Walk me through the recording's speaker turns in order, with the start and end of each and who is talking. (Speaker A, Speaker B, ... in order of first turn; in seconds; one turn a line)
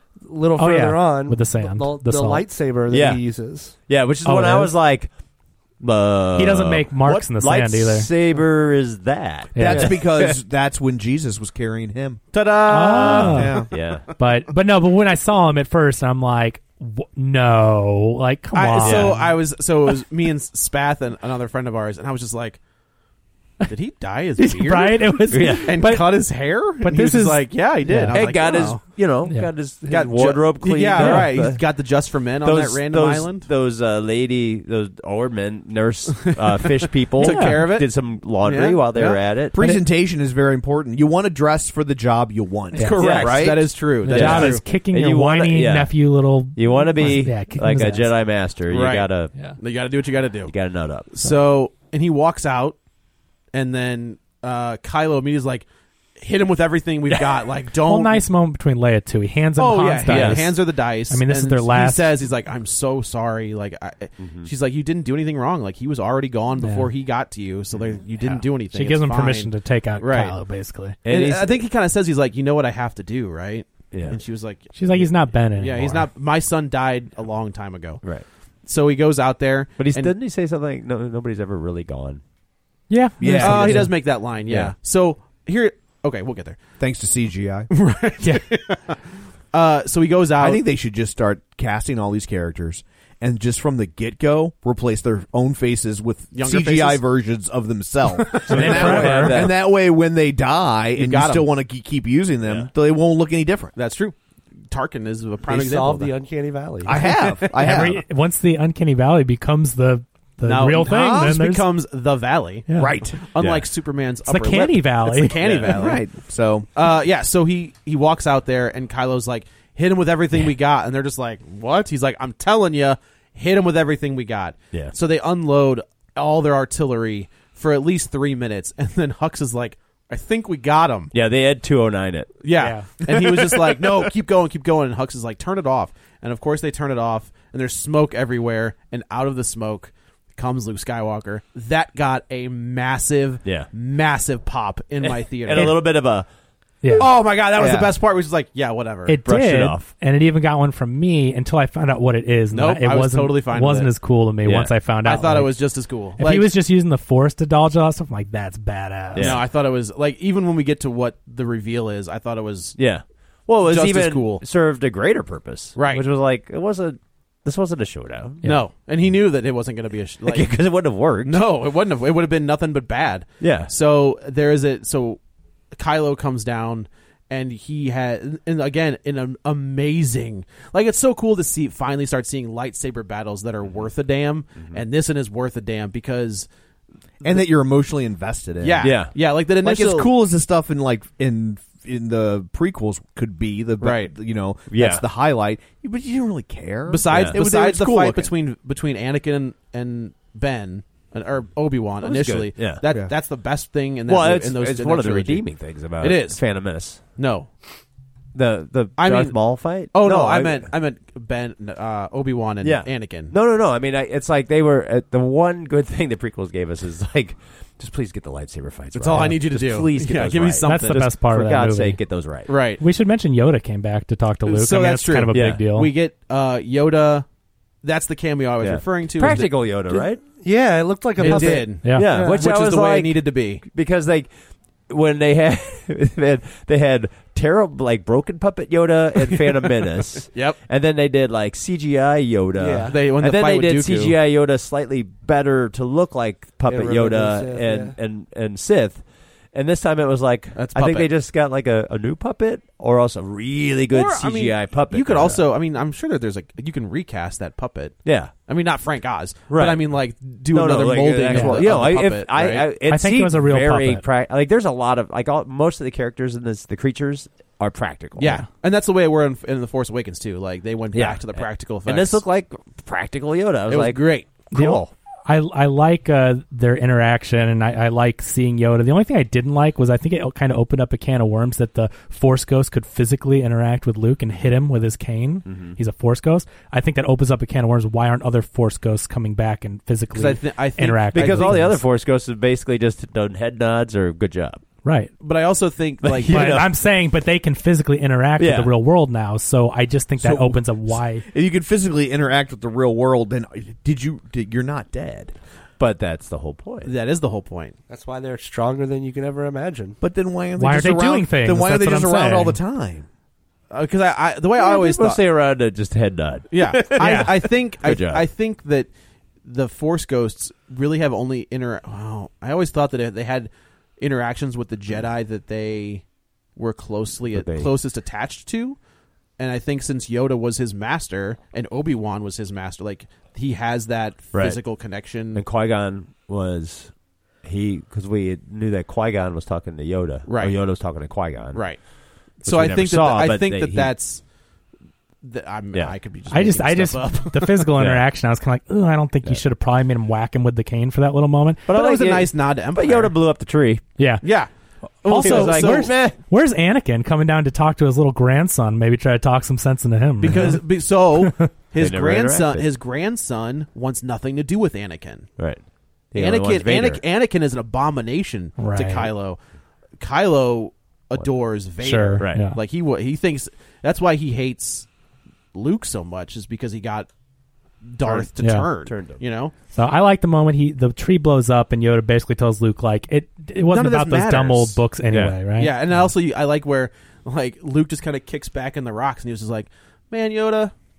Speaker A: 0.2-3.7
Speaker B: 0.6-2.5
Speaker C: 2.9-5.1
Speaker B: 4.2-4.7
Speaker C: 5.8-10.4
Speaker B: 6.3-8.1
Speaker B: 9.5-9.9
Speaker D: 9.6-12.2
Speaker E: 12.3-13.6
Speaker B: 12.7-13.6
Speaker D: 13.2-13.7
Speaker C: 13.3-14.0
Speaker B: 14.2-19.4
Speaker E: 18.5-22.6
Speaker C: 18.8-19.2
Speaker E: 23.7-28.9
Speaker B: 24.4-28.2
Speaker C: 25.3-25.8
Speaker C: 28.1-31.7
Speaker E: 29.9-33.5
Speaker B: 31.0-31.3
Speaker C: 32.4-39.5
Speaker E: 36.1-39.2
Speaker B: 37.2-37.6
Speaker D: 39.5-43.6
Speaker B: 39.6-39.8
Speaker B: 42.7-43.2
Speaker E: 42.7-44.6
Speaker C: 43.0-46.0
Speaker B: 44.0-48.1
Speaker C: 46.5-49.5
Speaker E: 48.7-50.5
Speaker C: 50.5-51.1
Speaker E: 51.1-52.8
Speaker E: 53.5-55.6
Speaker E: 56.2-58.2
Speaker B: 57.8-62.1
Speaker E: 59.6-70.4
Speaker C: 60.1-60.5
Speaker C: 64.2-64.5
Speaker B: 66.6-66.9
Speaker C: 67.7-68.4
Speaker B: 68.7-71.0
Speaker C: 71.0-71.6
Speaker E: 71.0-78.0
Speaker C: 73.9-74.2
Speaker B: 74.7-76.1
Speaker E: 78.7-80.1
Speaker C: 79.8-82.2
Speaker B: 82.9-83.9
Speaker D: 83.2-84.0
Speaker E: 83.3-86.6
Speaker C: 84.3-84.7
Speaker D: 86.8-87.7
Speaker E: 87.7-89.0
Speaker B: 88.2-88.5
Speaker E: 89.5-90.6
Speaker D: 90.4-103.7
Speaker E: 96.3-97.0
Speaker E: 98.3-99.3
Speaker B: 98.4-99.4
Speaker C: 98.4-99.6
Speaker E: 101.0-101.5
Speaker C: 102.4-102.7
Speaker E: 103.7-104.2
Speaker E: 104.7-106.1
Speaker A: 105.5-107.0
Speaker D: 106.8-108.0
Speaker B: 107.0-111.7
Speaker E: 110.4-116.0
Speaker D: 110.8-111.3
Speaker D: 112.7-113.3
Speaker C: 113.4-113.6
Speaker B: 114.2-115.4
Speaker C: 115.4-116.0
Speaker D: 115.7-116.7
Speaker E: 116.7-131.1
Speaker C: 131.1-132.4
Speaker E: 132.4-145.8
Speaker B: 132.6-132.9
Speaker C: 145.0-146.3
Speaker B: 146.8-147.1
Speaker E: 146.9-149.2
Speaker C: 147.6-147.9
Speaker B: 149.1-155.6
Speaker C: 149.2-149.9
Speaker E: 152.5-153.9
Speaker C: 154.4-154.8
Speaker E: 155.0-156.5
Speaker B: 156.2-159.4
Speaker C: 159.1-159.4
Speaker E: 159.2-162.9
Speaker C: 162.8-168.5
Speaker E: 163.6-164.4
Speaker E: 165.8-166.0
Speaker E: 168.4-170.7
Speaker C: 170.2-171.4
Speaker E: 171.2-175.2
Speaker C: 173.4-173.7
Speaker E: 175.7-186.5
Speaker C: 184.6-184.8
Speaker D: 187.2-198.3
Speaker E: 188.6-190.1
Speaker C: 188.8-189.1
Speaker E: 193.8-194.1
Speaker C: 194.7-195.0
Speaker E: 196.9-207.5
Speaker C: 197.1-197.4
Speaker C: 202.0-202.8
Speaker D: 202.9-203.1
Speaker C: 204.1-207.1
Speaker C: 208.3-210.7
Speaker E: 208.9-213.3
Speaker C: 212.6-222.5
Speaker E: 218.9-221.1
Speaker B: 220.6-222.0
Speaker E: 222.5-222.8
Speaker B: 222.8-225.9
Speaker E: 224.4-227.2
Speaker C: 225.3-225.6
Speaker E: 227.8-229.8
Speaker C: 228.6-230.2
Speaker A: 230.4-232.4
Speaker E: 231.2-233.6
Speaker C: 231.2-234.3
Speaker B: 231.7-232.4
Speaker C: 234.9-255.4
Speaker E: 240.2-240.6
Speaker A: 242.6-242.9
Speaker E: 242.8-244.2
Speaker A: 246.7-247.9
Speaker E: 250.5-251.1
Speaker E: 253.9-262.7
Speaker C: 258.0-258.3
Speaker C: 259.5-259.9
Speaker C: 260.5-268.4
Speaker B: 261.3-261.6
Speaker B: 262.9-264.0
Speaker E: 268.2-272.2
Speaker C: 270.9-274.9
Speaker E: 273.7-274.5
Speaker B: 274.5-291.8
Speaker C: 285.5-285.8
Speaker E: 290.1-291.6
Speaker C: 291.1-294.6
Speaker B: 294.8-295.1
Speaker E: 295.2-296.6
Speaker C: 296.0-296.7
Speaker B: 296.2-301.2
Speaker C: 298.4-298.7
Speaker D: 300.2-305.3
Speaker C: 305.8-306.9
Speaker E: 306.8-307.7
Speaker A: 307.9-310.0
Speaker D: 310.0-313.1
Speaker B: 310.6-312.6
Speaker E: 313.7-315.2
Speaker C: 314.6-318.2
Speaker E: 316.5-318.9
Speaker B: 317.0-317.3
Speaker E: 319.4-326.0
Speaker E: 326.6-328.8
Speaker C: 327.3-327.7
Speaker E: 329.4-335.4
Speaker C: 334.3-334.6
Speaker C: 335.3-336.9
Speaker C: 337.4-341.9
Speaker E: 340.2-344.2
Speaker C: 342.4-343.9
Speaker E: 345.2-347.7
Speaker B: 346.3-351.7
Speaker C: 347.8-348.0
Speaker C: 351.7-353.8
Speaker E: 351.7-353.1
Speaker B: 354.0-354.2
Speaker E: 354.2-354.5
Speaker E: 355.0-356.0
Speaker B: 355.1-360.6
Speaker C: 355.1-356.2
Speaker E: 360.2-365.3
Speaker C: 360.2-360.6
Speaker B: 361.1-361.5
Speaker C: 361.8-362.7
Speaker C: 365.4-367.0
Speaker E: 366.1-369.4
Speaker B: 368.6-369.1
Speaker E: 370.0-374.9
Speaker B: 371.8-372.6
Speaker C: 372.2-372.5
Speaker E: 375.5-377.1
Speaker E: 377.8-379.5
Speaker C: 378.0-378.3
Speaker B: 378.4-378.7
Speaker C: 378.8-379.2
Speaker B: 379.7-385.7
Speaker E: 383.7-384.8
Speaker C: 385.1-385.4
Speaker E: 385.5-390.7